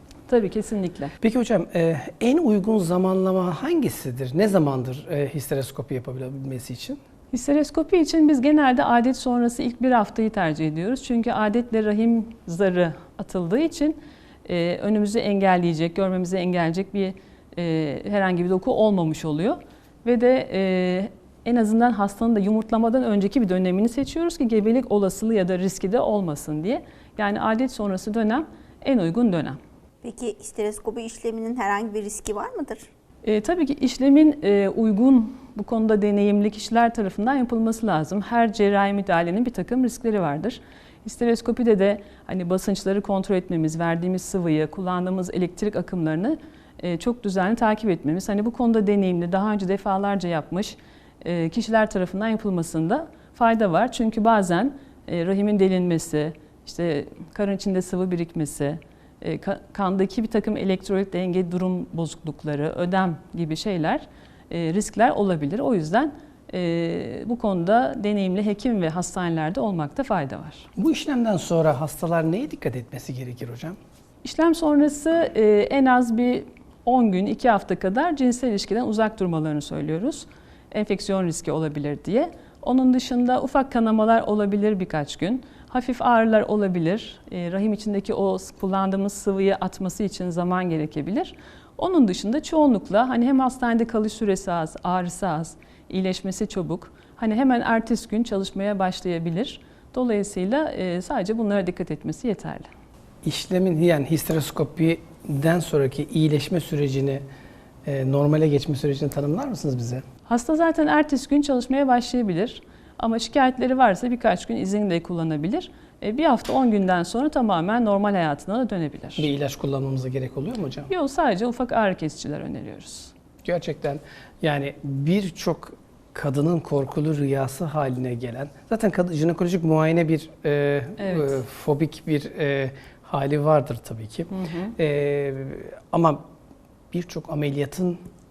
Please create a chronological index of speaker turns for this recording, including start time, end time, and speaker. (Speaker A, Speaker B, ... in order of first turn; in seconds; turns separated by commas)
Speaker A: 0.3-1.1, Speaker B: 1.2-7.0, Speaker A: 7.3-29.6, Speaker C: 30.0-32.9, Speaker A: 33.2-70.7, Speaker B: 70.8-73.8, Speaker A: 74.2-102.7, Speaker B: 103.2-107.2, Speaker B: 107.8-110.0, Speaker A: 110.3-119.3, Speaker B: 119.2-120.9, Speaker A: 120.9-123.1, Speaker B: 123.4-136.2, Speaker A: 131.0-131.4, Speaker A: 134.3-134.7, Speaker B: 136.9-138.0